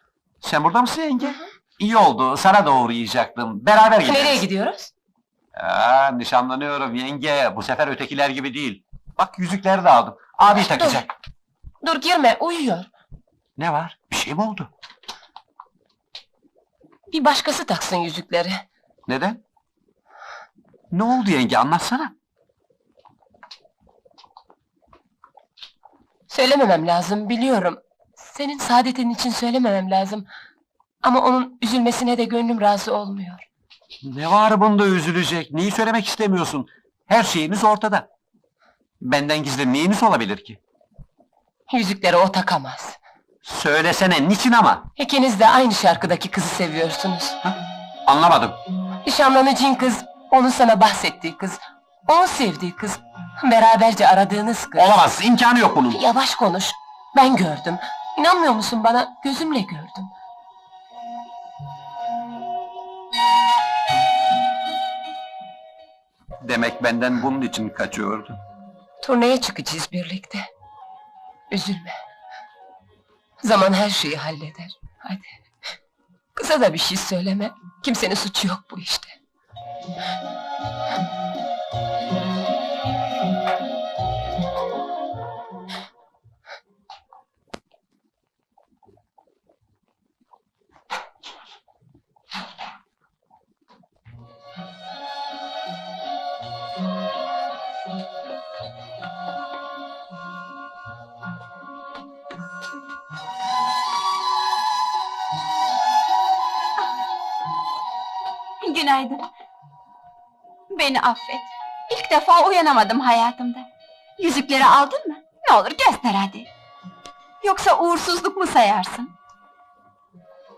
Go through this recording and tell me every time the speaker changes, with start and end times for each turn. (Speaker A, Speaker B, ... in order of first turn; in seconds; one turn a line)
Speaker A: 0.4-4.4
Speaker B: 4.0-4.9
Speaker A: 5.5-11.1
Speaker B: 10.6-11.0
Speaker B: 11.8-12.9
Speaker A: 13.6-14.7
Speaker B: 17.1-18.6
Speaker A: 19.1-19.4
Speaker A: 20.9-22.1
Speaker B: 26.3-30.3
Speaker B: 31.0-33.5
Speaker A: 34.0-38.1
Speaker A: 39.0-40.6
Speaker B: 41.7-43.0
Speaker A: 43.4-44.9
Speaker B: 45.0-47.4
Speaker A: 47.4-48.6
Speaker B: 49.0-55.0
Speaker A: 54.8-56.0
Speaker B: 55.9-60.1
Speaker A: 66.4-68.4
Speaker B: 69.0-70.5
Speaker B: 71.5-72.0
Speaker B: 73.4-75.4
Speaker B: 76.3-79.2
Speaker C: 108.6-109.3
Speaker C: 110.7-113.7
Speaker C: 114.2-116.5
Speaker C: 117.4-119.1